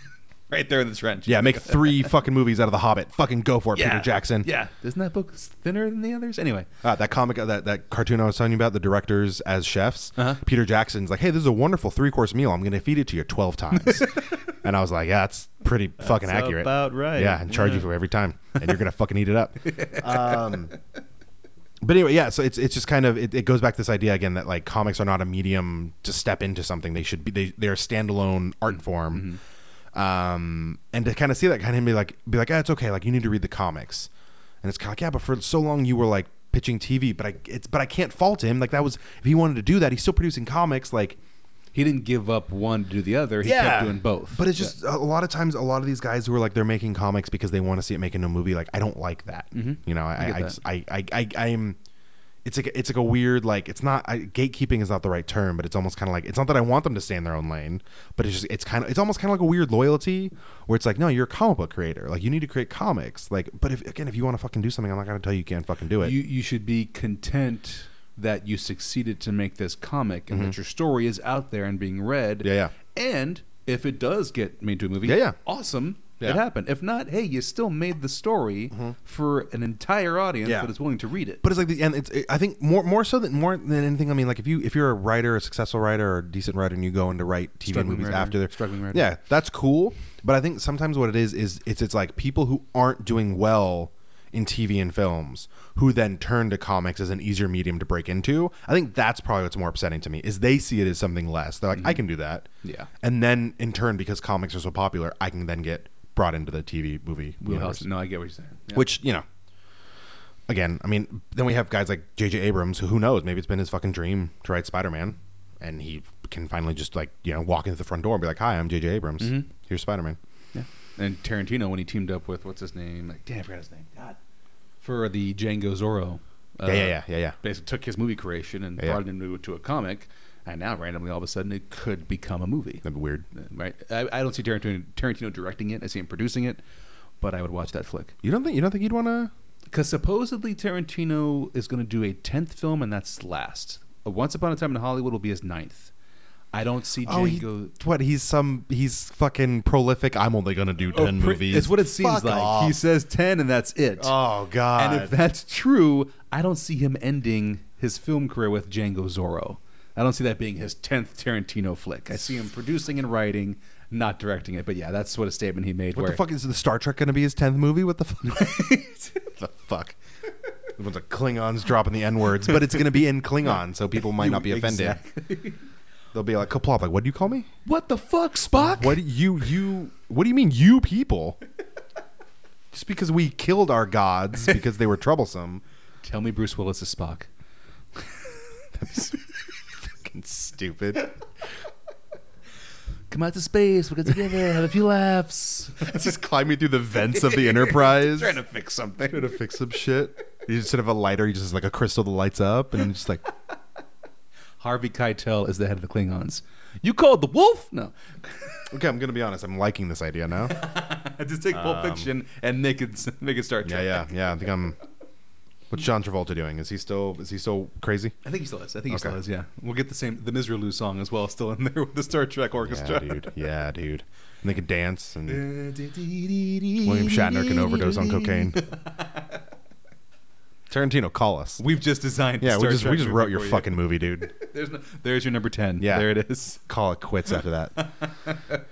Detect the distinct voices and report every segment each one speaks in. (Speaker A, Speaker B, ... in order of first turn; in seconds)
Speaker A: 0.5-2.1, 3.7-6.7, 13.8-14.3, 16.0-17.9, 19.7-20.7, 29.1-29.4, 41.7-44.7, 49.5-50.6, 66.0-81.4, 87.7-89.1, 101.7-102.0, 102.6-102.9, 107.4-108.9, 119.2-119.5, 120.5-124.2, 124.8-136.6, 137.2-138.1, 139.7-145.9, 146.5-147.7, 150.9-154.1, 154.7-166.2, 168.2-169.3, 174.0-175.6, 177.6-179.0, 186.0-187.3, 193.1-196.1, 196.9-199.3, 204.6-208.7, 210.4-214.1, 218.2-223.3, 225.2-229.4, 231.6-236.6, 237.8-238.6
Speaker B: 1.2-4.5, 6.8-20.7, 21.8-29.3, 29.9-34.1, 34.6-41.2, 43.4-51.8, 52.4-66.2, 72.4-72.7, 75.0-75.3, 80.4-80.7, 81.4-102.5, 103.0-107.8, 108.7-109.2, 110.5-120.2, 126.6-127.3, 132.8-133.2, 138.2-139.3, 147.0-152.8, 154.0-155.1, 165.9-168.7, 169.3-170.0, 170.8-175.0, 176.1-177.5, 178.6-181.4, 182.7-185.6, 188.8-189.1, 190.0-191.1, 195.8-198.4, 199.1-203.2, 208.7-210.6, 211.5-212.1, 213.6-214.8, 215.7-218.1, 218.9-219.2, 222.6-225.4, 226.8-228.6, 230.7-231.6, 232.4-234.3, 235.8-236.1, 236.6-237.9